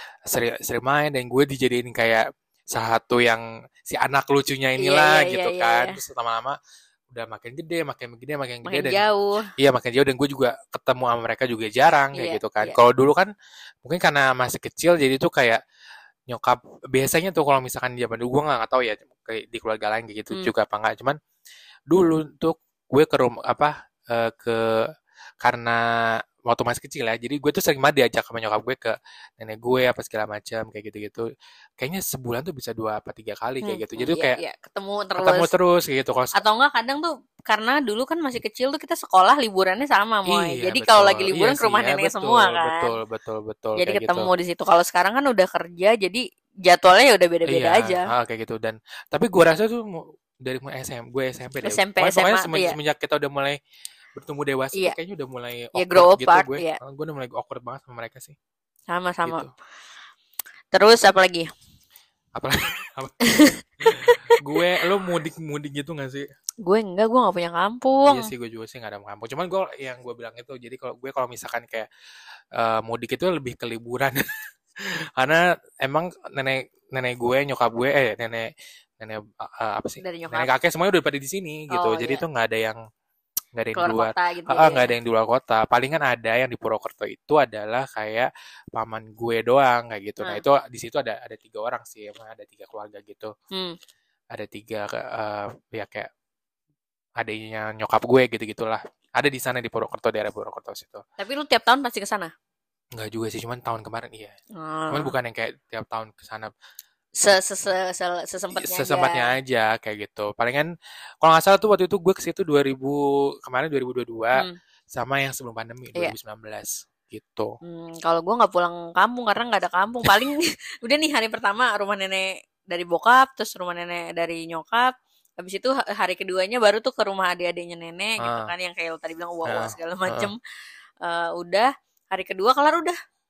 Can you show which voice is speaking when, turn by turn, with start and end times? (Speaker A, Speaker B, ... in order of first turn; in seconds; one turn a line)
Speaker A: 0.3-6.5
Speaker B: 4.8-6.0
Speaker A: 7.1-9.0
Speaker B: 8.6-9.5
Speaker A: 9.6-13.3
Speaker B: 12.1-12.8
Speaker A: 13.8-15.6
Speaker A: 16.3-21.1
Speaker A: 21.9-24.8
Speaker A: 25.4-25.8
Speaker A: 26.5-31.2
Speaker A: 31.8-34.4
Speaker B: 33.6-35.5
Speaker A: 35.2-36.4
Speaker B: 36.3-42.9
Speaker A: 40.3-44.3
Speaker B: 43.8-48.1
Speaker A: 47.5-53.6
Speaker B: 51.6-52.8
Speaker A: 54.1-58.4
Speaker B: 55.7-56.8
Speaker B: 58.9-59.5
Speaker A: 59.2-59.5
Speaker B: 60.7-61.5
Speaker A: 62.4-63.1
Speaker B: 63.2-63.6
Speaker A: 63.8-66.3
Speaker B: 66.6-68.3
Speaker A: 68.0-71.9
Speaker A: 72.5-74.2
Speaker A: 75.2-78.5
Speaker A: 79.0-82.8
Speaker B: 80.0-80.5
Speaker B: 81.7-82.2
Speaker A: 83.5-93.3
Speaker B: 83.7-84.9
Speaker A: 94.3-96.1
Speaker A: 97.2-101.0
Speaker B: 101.2-102.3
Speaker A: 102.9-104.3
Speaker B: 104.6-105.1
Speaker A: 104.9-106.5
Speaker B: 107.2-109.3
Speaker A: 108.5-110.7
Speaker A: 111.2-117.5
Speaker B: 117.6-130.3
Speaker A: 128.2-128.5
Speaker A: 129.4-130.3
Speaker B: 131.0-133.0